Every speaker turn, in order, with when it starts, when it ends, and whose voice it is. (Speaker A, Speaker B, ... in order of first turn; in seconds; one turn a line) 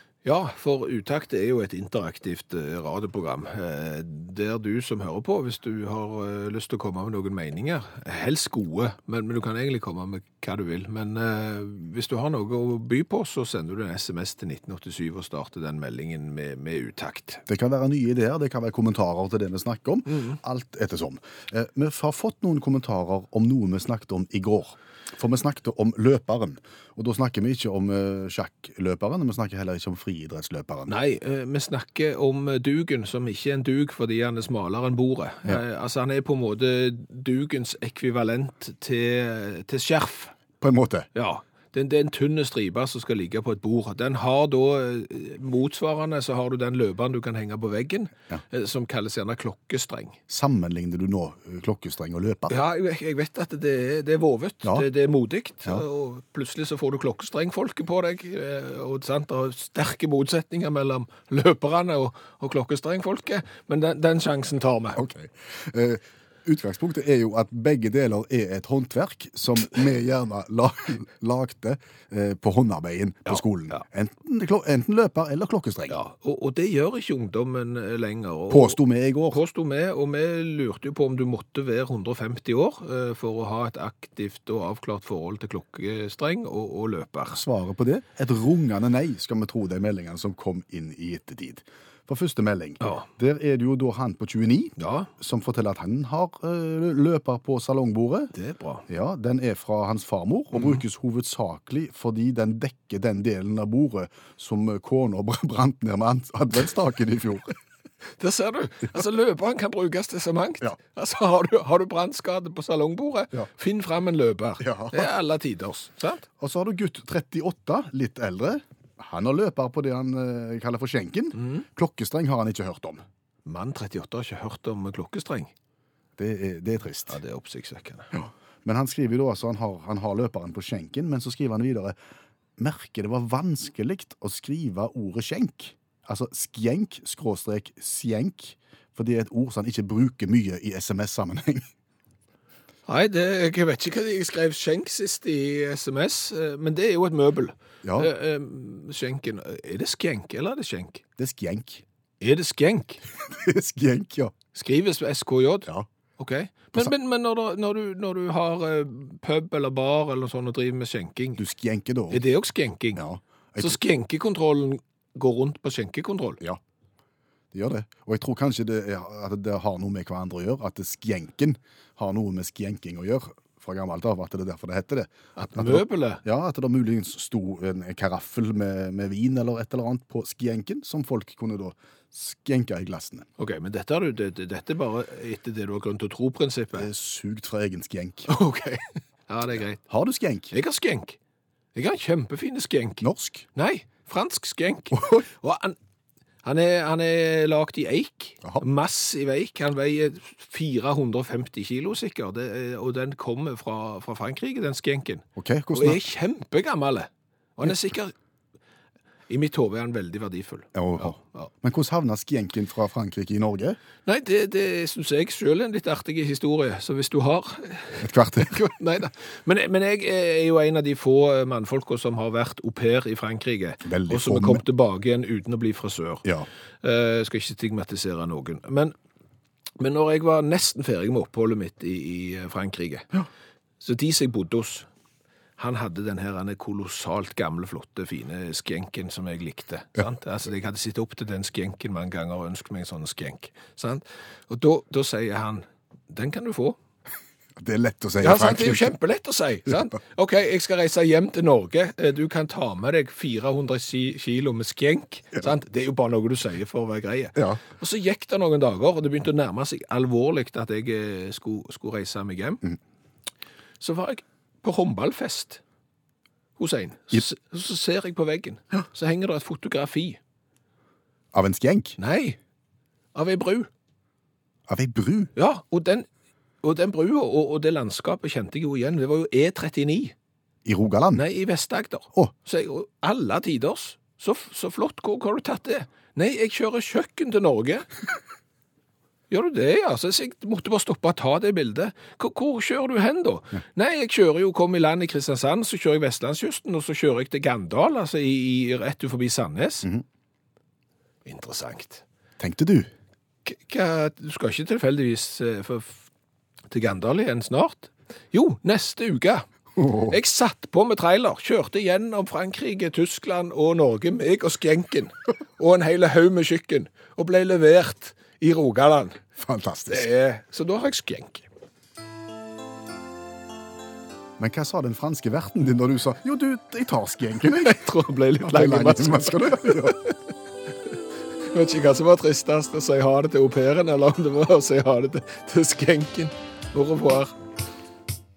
Speaker A: 0.2-17.4
Speaker B: 17.5-30.9
Speaker A: 30.9-40.3
Speaker B: 40.6-41.1
Speaker A: 41.1-50.2
Speaker B: 50.3-52.5
Speaker A: 52.5-65.0
Speaker B: 65.0-76.0
Speaker A: 73.3-73.8
Speaker A: 75.9-87.4
Speaker B: 78.5-79.4
Speaker B: 87.3-98.3
Speaker A: 92.8-93.1
Speaker A: 94.8-95.1
Speaker A: 98.3-98.8
Speaker B: 98.9-107.5
Speaker A: 108.2-116.2
Speaker B: 114.6-115.1
Speaker B: 116.4-123.0
Speaker A: 121.4-121.6
Speaker A: 123.4-125.5
Speaker B: 126.2-127.2
Speaker A: 127.1-128.1
Speaker B: 128.1-132.0
Speaker B: 132.6-141.7
Speaker A: 142.9-151.0
Speaker B: 147.8-148.1
Speaker B: 151.2-151.8
Speaker A: 152.2-153.0
Speaker B: 153.2-154.3
Speaker A: 154.5-161.4
Speaker B: 161.4-162.2
Speaker A: 162.1-163.0
Speaker B: 162.9-163.8
Speaker A: 163.6-166.4
Speaker B: 167.5-183.3
Speaker A: 175.3-176.2
Speaker A: 183.4-186.9
Speaker B: 186.7-188.3
Speaker A: 188.3-189.8
Speaker B: 189.9-190.5
Speaker A: 190.5-191.2
Speaker A: 191.7-193.0
Speaker B: 193.0-193.5
Speaker A: 193.6-195.8
Speaker B: 194.9-195.2
Speaker A: 196.4-208.1
Speaker B: 205.3-206.0
Speaker A: 209.3-211.5
Speaker B: 210.7-213.8
Speaker A: 214.1-226.2
Speaker B: 218.0-218.6
Speaker B: 223.8-224.6
Speaker A: 226.8-228.9
Speaker A: 229.8-233.1
Speaker A: 233.8-234.9
Speaker A: 235.6-246.8
Speaker B: 247.6-248.9
Speaker A: 248.2-262.6
Speaker B: 257.4-257.6
Speaker A: 263.8-265.6
Speaker A: 266.6-270.2
Speaker B: 271.3-272.0
Speaker A: 272.0-272.4
Speaker A: 273.1-273.7
Speaker B: 274.7-275.3
Speaker A: 275.4-276.1
Speaker A: 276.6-280.1
Speaker B: 280.6-281.2
Speaker A: 281.1-287.9
Speaker A: 289.3-299.9
Speaker A: 301.2-302.0
Speaker B: 302.4-302.9
Speaker A: 303.4-306.1
Speaker A: 306.7-309.5
Speaker B: 309.8-310.1
Speaker A: 310.1-319.2
Speaker B: 319.4-320.1
Speaker A: 319.9-321.5
Speaker B: 324.4-327.8
Speaker A: 327.5-330.1
Speaker B: 328.4-330.0
Speaker A: 331.5-337.3